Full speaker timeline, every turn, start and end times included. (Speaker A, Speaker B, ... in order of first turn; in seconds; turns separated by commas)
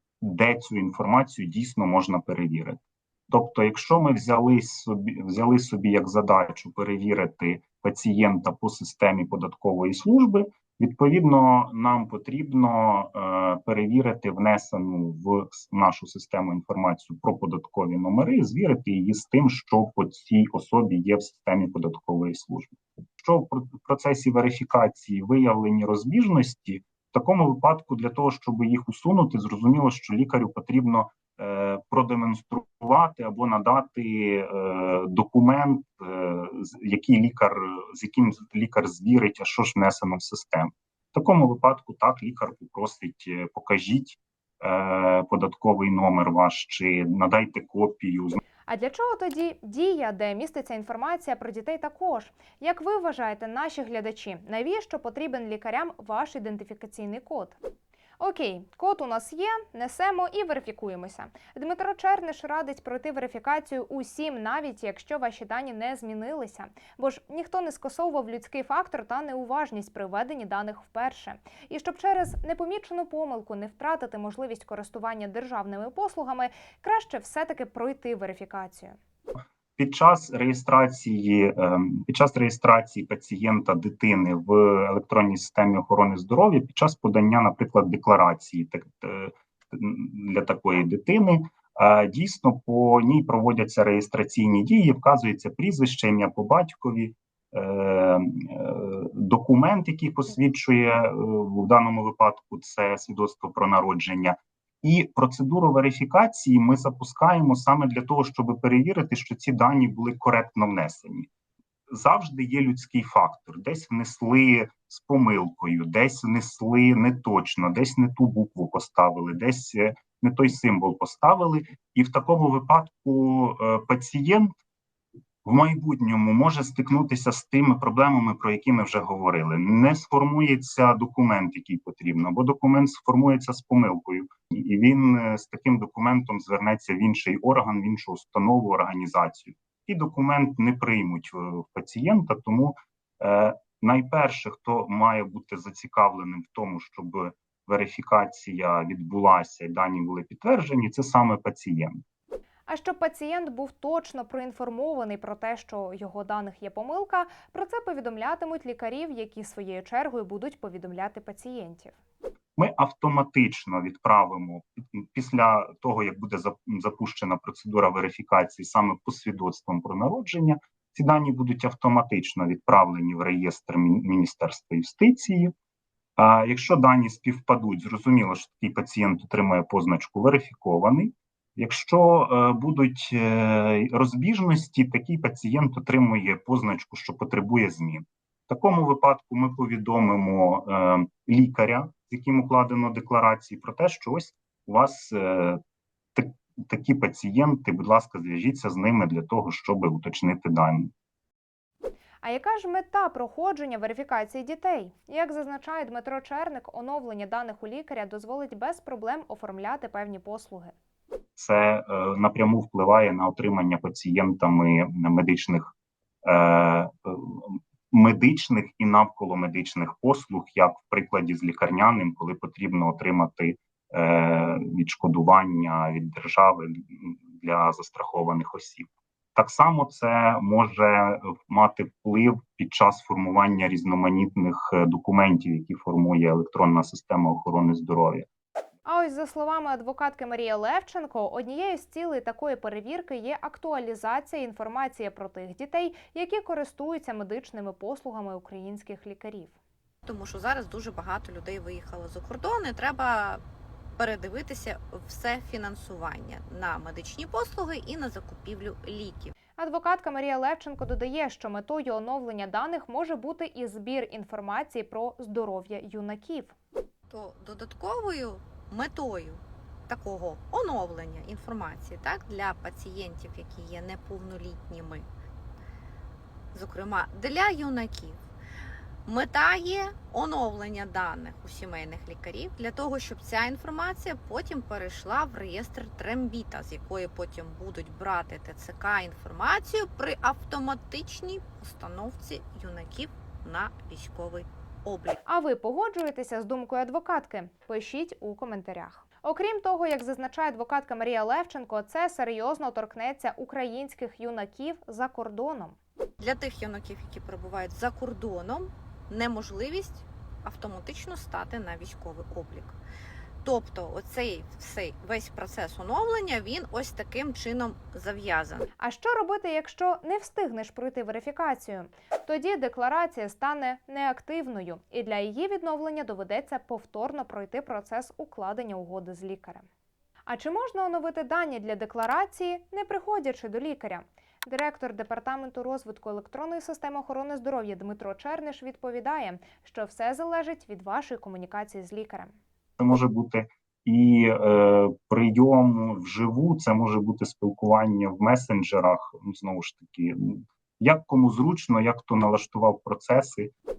Speaker A: 0.2-48.4, Speaker B: 48.7-57.6, Speaker B: 58.2-79.0, Speaker A: 79.8-111.3, Speaker A: 111.9-124.5, Speaker A: 125.4-152.0, Speaker B: 152.7-161.9, Speaker A: 162.6-175.5, Speaker A: 176.2-195.6, Speaker A: 196.1-200.9, Speaker B: 202.2-210.7, Speaker A: 211.3-215.7, Speaker A: 216.2-238.3, Speaker B: 238.8-249.6, Speaker C: 250.0-253.4, Speaker C: 253.9-259.3, Speaker B: 259.6-266.5, Speaker C: 267.1-275.1, Speaker C: 276.5-278.2, Speaker C: 279.0-295.2, Speaker B: 295.2-305.8, Speaker C: 306.2-312.8, Speaker C: 313.4-318.7, Speaker B: 318.8-329.6, Speaker B: 330.3-342.3, Speaker A: 342.8-353.5